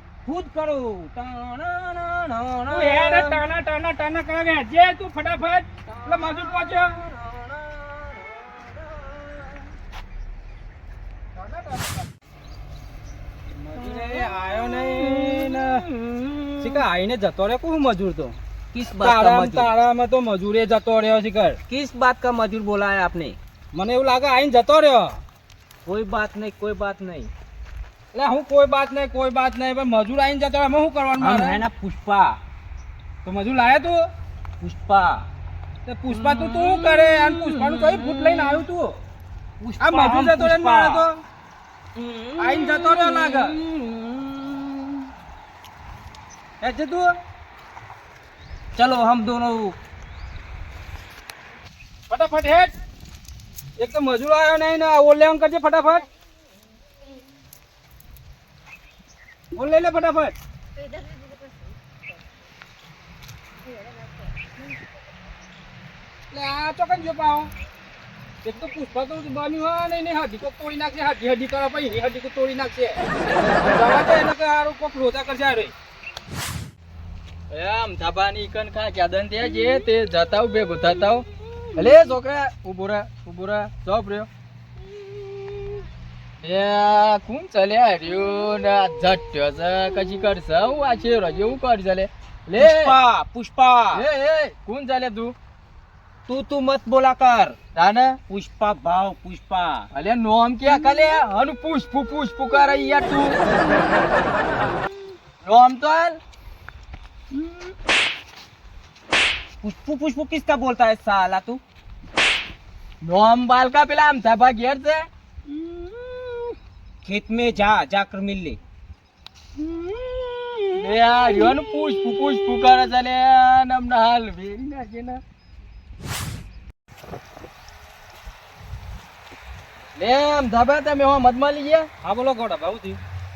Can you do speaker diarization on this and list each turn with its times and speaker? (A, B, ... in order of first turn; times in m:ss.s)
0:00.3-0:03.4 A
0:02.7-0:07.0 B
0:05.9-0:09.6 A
0:11.4-0:12.0 B
0:13.6-0:15.8 B
0:13.8-0:16.8 A
0:16.6-0:18.4 B
0:18.7-0:19.7 A
0:19.0-0:21.6 B
0:21.7-0:23.4 A
0:23.7-0:25.2 B
0:25.9-0:27.3 A
0:28.1-0:31.6 B
0:31.2-0:32.4 A
0:33.2-0:34.0 B
0:34.6-0:35.3 A
0:35.9-0:39.0 B
0:36.1-0:38.6 A
0:39.6-0:41.1 A
0:39.8-0:41.1 B
0:42.0-0:45.1 A
0:42.4-0:43.6 B
0:46.6-0:47.1 B
0:48.8-0:49.8 A
0:52.1-0:52.7 B
0:53.8-0:56.0 B
0:59.6-1:00.3 B
1:06.3-1:07.5 B
1:08.4-1:13.0 B
1:13.6-1:15.7 B
1:17.5-1:24.3 C
1:26.4-1:33.0 C
1:32.6-1:34.1 A
1:33.9-1:35.4 C
1:36.3-1:37.6 A
1:37.8-1:38.2 C
1:38.3-1:39.9 A
1:39.9-1:43.4 C
1:45.4-1:46.2 C
1:49.6-1:51.6 A
1:53.0-1:55.1 C
1:57.0-1:58.6 A
2:00.2-2:00.6 A
2:00.7-2:05.2 C
2:10.0-2:11.9 C
2:12.0-2:13.0 B